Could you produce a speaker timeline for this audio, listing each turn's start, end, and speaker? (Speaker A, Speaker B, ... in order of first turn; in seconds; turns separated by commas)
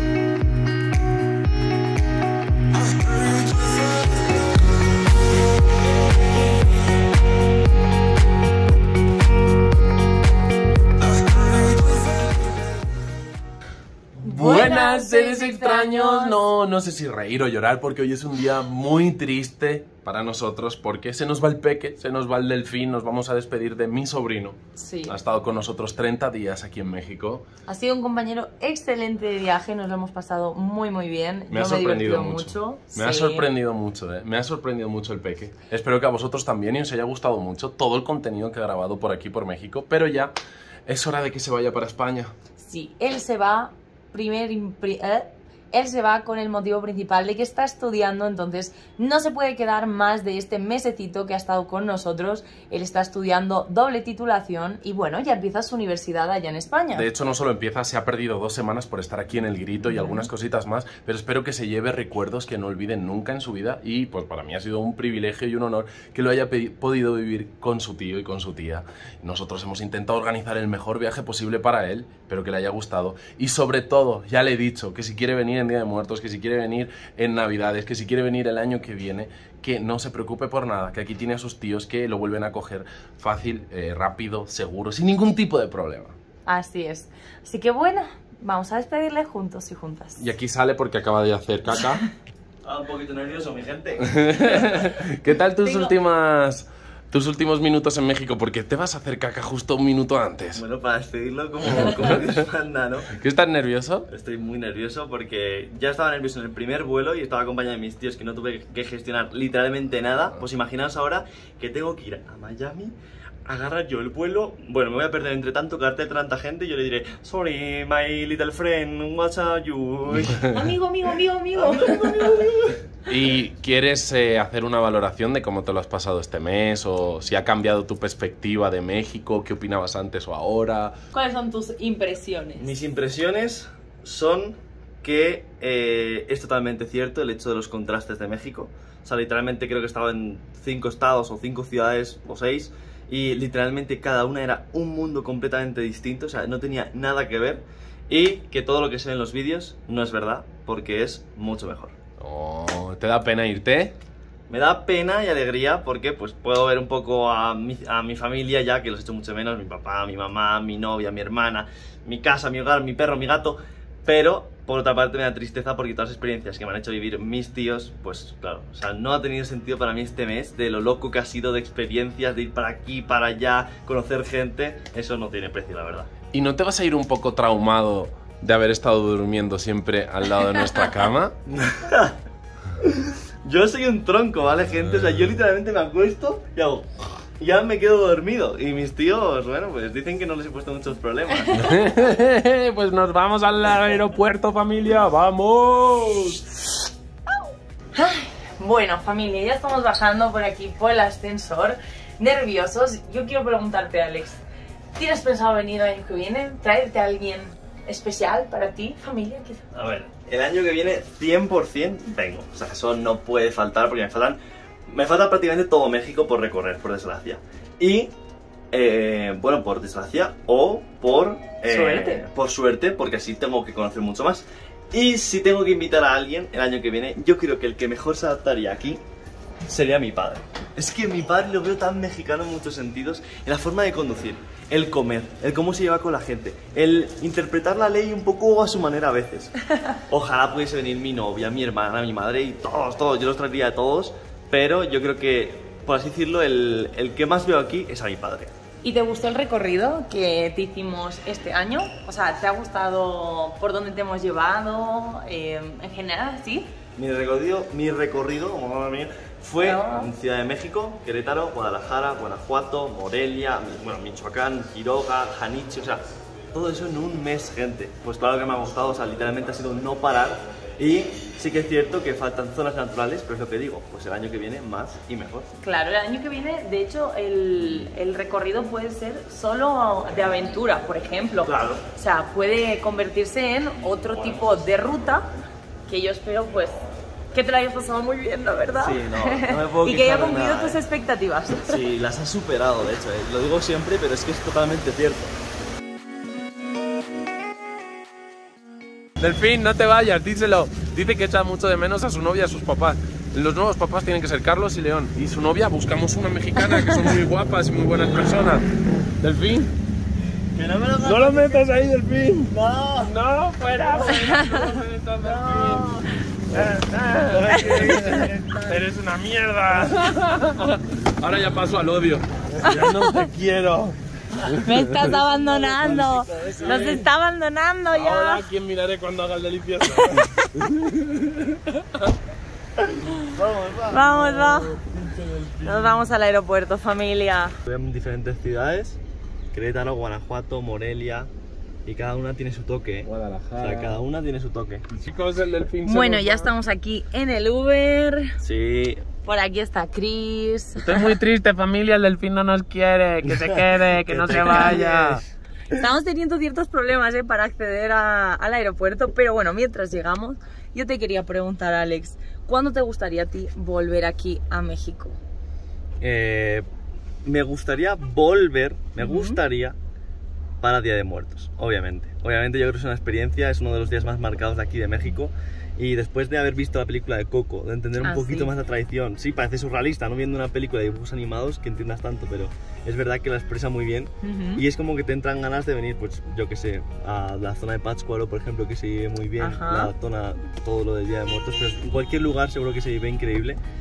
Speaker A: 14.2-16.4, Speaker B: 14.2-27.4, Speaker A: 24.8-25.1, Speaker A: 27.7-33.5, Speaker B: 31.5-40.3, Speaker B: 40.9-42.3, Speaker A: 42.6-57.1, Speaker B: 56.9-86.2, Speaker A: 59.9-60.3, Speaker A: 86.5-90.2, Speaker B: 90.2-92.0, Speaker C: 92.6-94.9, Speaker B: 94.1-100.6, Speaker A: 95.6-95.9, Speaker C: 100.5-103.1, Speaker B: 101.7-102.3, Speaker B: 103.1-104.1, Speaker C: 104.1-112.9, Speaker C: 113.5-120.5, Speaker A: 120.5-122.4, Speaker C: 121.5-122.8, Speaker B: 123.1-130.9, Speaker A: 131.1-132.7, Speaker C: 132.6-151.9, Speaker B: 152.2-153.9, Speaker C: 154.5-176.1, Speaker B: 176.3-181.3, Speaker C: 181.5-182.2, Speaker C: 182.8-191.6, Speaker B: 191.5-196.5, Speaker A: 197.9-204.4, Speaker A: 204.9-209.6, Speaker C: 209.7-218.1, Speaker C: 218.7-229.0, Speaker A: 221.7-222.2, Speaker C: 229.7-239.5, Speaker C: 240.1-248.5, Speaker A: 248.8-256.7, Speaker C: 256.9-275.5, Speaker A: 259.6-260.1, Speaker A: 275.6-285.3, Speaker C: 281.4-281.8, Speaker A: 285.9-286.8, Speaker A: 287.3-291.8, Speaker C: 288.7-290.8, Speaker C: 291.6-295.3, Speaker B: 299.2-308.6, Speaker B: 309.2-309.7, Speaker C: 310.5-311.7, Speaker B: 311.0-316.0, Speaker C: 312.5-313.1, Speaker C: 315.2-318.7, Speaker B: 316.5-324.8, Speaker A: 317.6-318.1, Speaker C: 322.5-322.8, Speaker A: 322.6-323.3, Speaker A: 324.6-328.4, Speaker C: 325.1-327.1, Speaker B: 326.6-327.0, Speaker B: 327.9-331.6, Speaker A: 330.0-330.3, Speaker C: 333.1-334.5, Speaker A: 333.9-334.8, Speaker B: 334.4-335.7, Speaker A: 335.6-337.6, Speaker C: 337.6-339.0, Speaker C: 339.5-341.3, Speaker C: 341.9-344.8, Speaker B: 343.0-344.0, Speaker B: 344.9-346.5, Speaker A: 345.8-348.4, Speaker C: 348.4-349.1, Speaker A: 349.2-351.1, Speaker B: 350.8-355.2, Speaker C: 353.2-355.2, Speaker A: 353.9-354.9, Speaker A: 355.7-365.2, Speaker C: 366.0-366.6, Speaker C: 367.2-369.8, Speaker A: 369.0-369.4, Speaker C: 370.6-393.6, Speaker A: 378.0-378.5, Speaker A: 384.2-384.6, Speaker A: 389.4-389.9